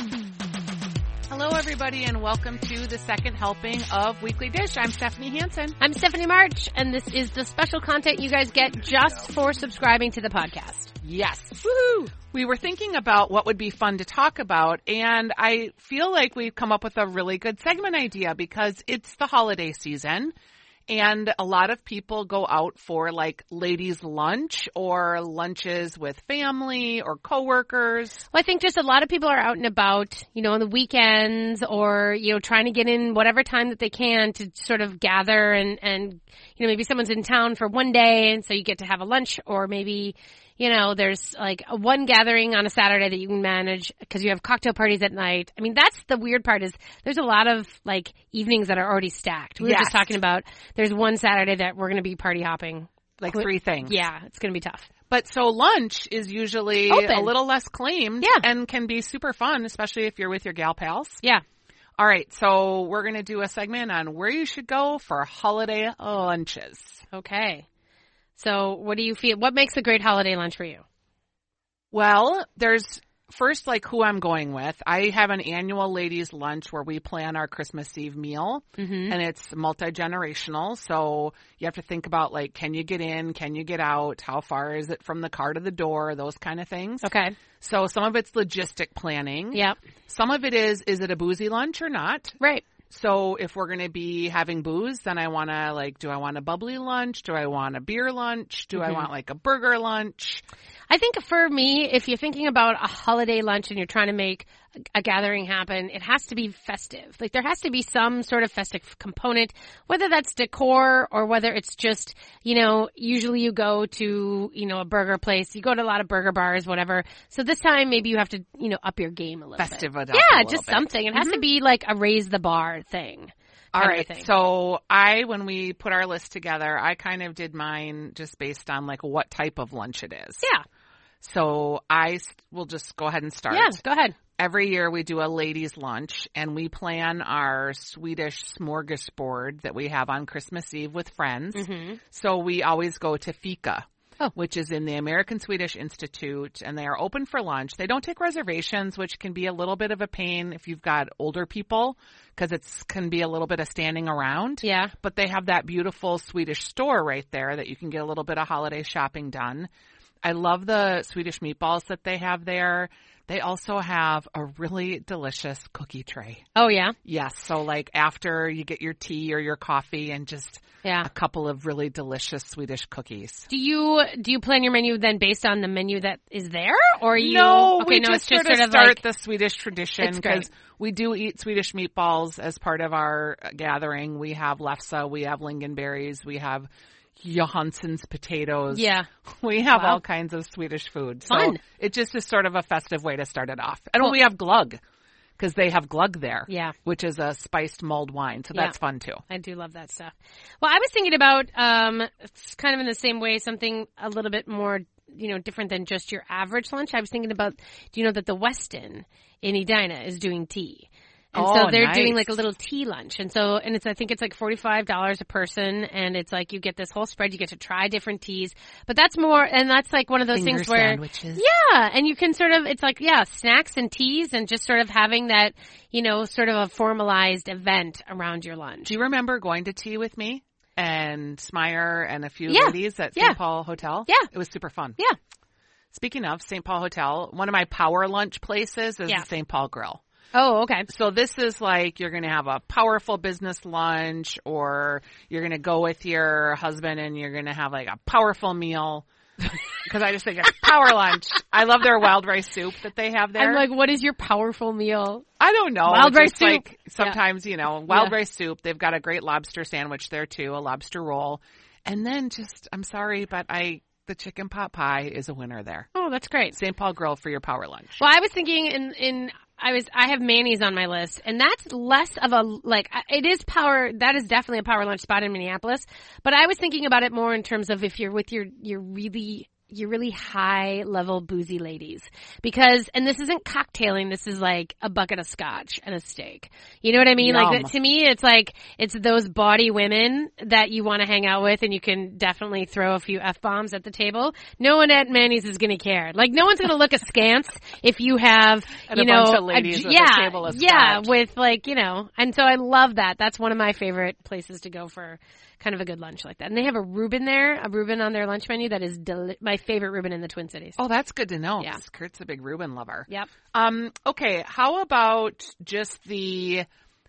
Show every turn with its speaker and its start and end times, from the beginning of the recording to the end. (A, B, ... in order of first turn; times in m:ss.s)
0:01.3-0:05.8 A
0:05.8-0:10.9 B
0:11.0-0:20.3 A
0:20.9-0:28.2 A
0:28.3-0:54.9 B
0:49.6-0:50.2 A
0:53.2-0:54.0 A
0:55.1-1:01.2 A
0:56.9-0:57.3 B
0:58.2-0:58.4 B
1:02.0-1:07.0 A
1:07.1-1:07.6 B
1:08.4-1:10.8 B
1:11.9-1:27.1 A
1:18.8-1:19.2 B
1:27.0-1:27.4 B
1:27.6-1:32.4 A
1:32.4-1:32.6 B
1:32.9-1:40.4 A
1:38.7-1:39.1 B
1:40.9-2:04.3 B
1:59.6-2:01.4 A
2:03.7-2:10.4 A
2:11.2-2:13.8 A
2:13.5-2:14.2 B
2:14.4-2:39.7 A
2:21.5-2:22.0 B
2:34.6-2:34.9 B
2:40.2-2:46.4 A
2:46.5-2:47.0 B
2:47.0-2:53.5 A
2:50.8-2:51.1 B
2:53.5-2:59.0 B
2:57.1-3:14.8 A
3:00.0-3:00.5 B
3:08.7-3:09.1 B
3:09.7-3:10.0 B
3:11.3-3:11.6 B
3:15.4-3:19.2 A
3:16.5-3:16.8 B
3:19.3-3:48.9 B
3:31.3-3:32.3 A
3:40.3-3:41.4 A
3:48.8-3:55.0 A
3:52.5-3:53.4 B
3:55.9-4:00.0 A
4:00.3-4:00.9 B
4:00.9-4:13.6 A
4:13.4-4:15.2 B
4:15.4-4:25.9 A
4:15.8-4:17.2 B
4:17.9-4:18.2 B
4:25.9-4:26.6 B
4:26.5-4:28.0 A
4:28.0-5:10.8 B
4:47.2-4:47.7 A
4:58.9-5:01.1 A
5:10.8-5:16.6 A